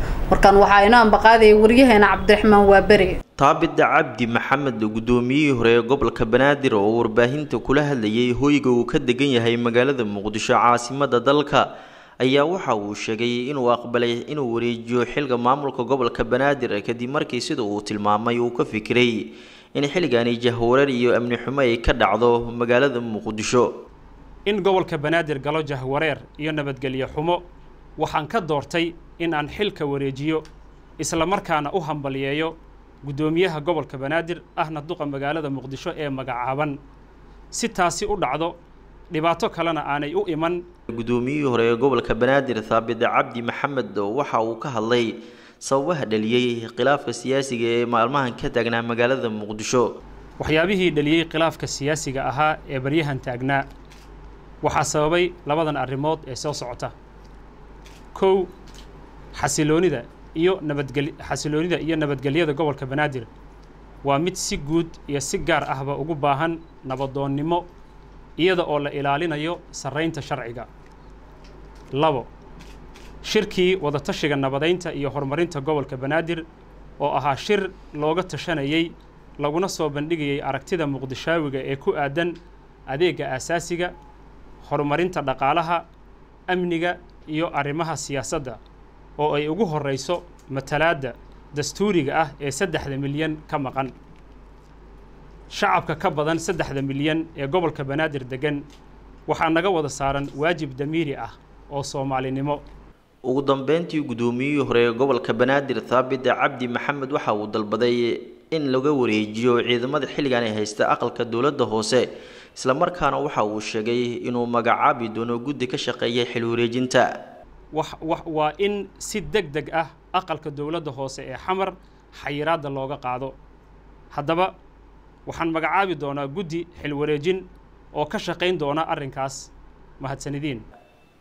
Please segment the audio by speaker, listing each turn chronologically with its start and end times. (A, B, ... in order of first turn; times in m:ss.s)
0:00.3-0:03.1 A
0:03.4-0:11.6 B
0:12.2-0:23.7 B
0:24.4-0:27.4 C
0:28.0-0:30.4 C
0:31.0-0:36.8 C
0:37.5-0:38.5 C
0:39.1-0:40.6 C
0:40.9-0:49.9 B
0:50.4-0:53.6 C
0:54.6-0:56.9 C
0:58.1-0:58.5 C
0:59.3-1:03.3 C
1:04.0-1:07.6 C
1:08.4-1:10.7 C
1:12.0-1:12.3 C
1:13.2-1:16.4 C
1:17.0-1:22.3 C
1:22.9-1:23.9 C
1:24.6-1:25.8 C
1:26.5-1:28.6 C
1:29.2-1:33.9 C
1:35.5-1:38.6 C
1:39.3-1:42.6 C
1:43.2-1:57.1 B
1:57.7-2:03.3 C
2:04.1-2:04.5 C
2:05.3-2:07.4 C
2:07.9-2:10.6 C